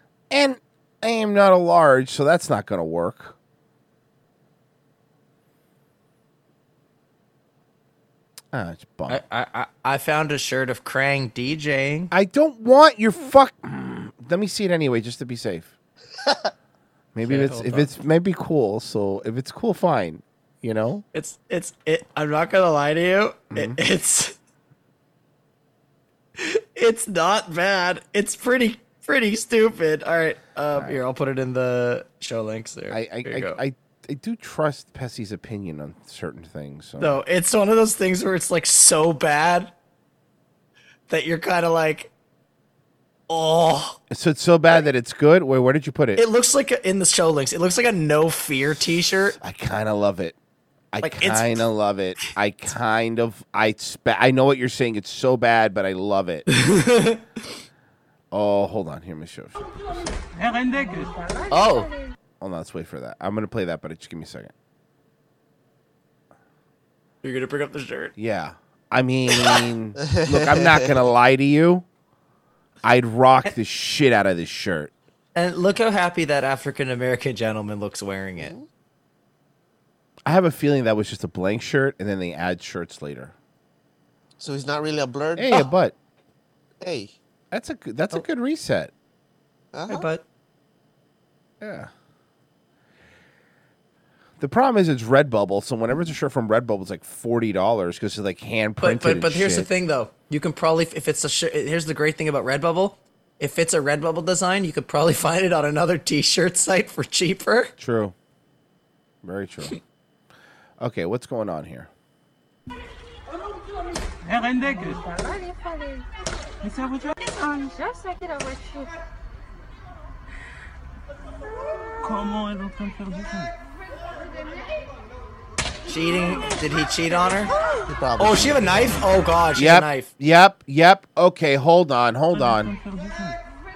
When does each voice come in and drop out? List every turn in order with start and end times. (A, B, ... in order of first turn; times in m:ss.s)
0:00.3-0:03.3 A
0:08.5-0:09.2 A
0:09.1-0:12.1 B
0:12.1-0:15.7 A
0:17.1-0:21.0 A
0:17.2-0:17.9 B
0:21.1-0:24.3 B
0:23.5-0:23.8 A
0:26.4-0:33.6 B
0:30.7-0:31.0 A
0:32.9-0:37.2 A
0:37.0-0:39.7 B
0:41.1-0:42.1 B
0:43.3-0:44.0 B
0:44.1-0:46.2 A
0:46.2-0:49.4 B
0:49.4-0:50.4 A
0:50.9-0:56.4 A
0:51.0-0:51.7 B
0:56.5-0:57.2 B
0:58.3-0:59.8 A
1:01.5-1:01.9 B
1:02.4-1:04.5 A
1:07.2-1:08.1 B
1:08.2-1:11.8 A
1:10.0-1:10.9 C
1:12.8-1:14.9 A
1:15.3-1:18.5 B
1:18.4-1:18.6 C
1:20.2-1:23.3 A
1:24.4-1:25.6 C
1:25.4-1:25.9 A
1:26.8-1:27.1 C
1:27.5-1:28.9 A
1:29.7-1:30.1 C
1:29.9-1:30.2 B
1:31.6-1:31.9 A
1:34.4-1:39.7 A
1:38.8-1:47.7 B
1:47.8-1:48.1 A
1:49.2-1:49.8 A
1:50.8-1:51.9 A
2:05.9-2:07.5 B
2:07.9-2:09.1 C
2:08.2-2:10.1 B
2:09.5-2:12.7 A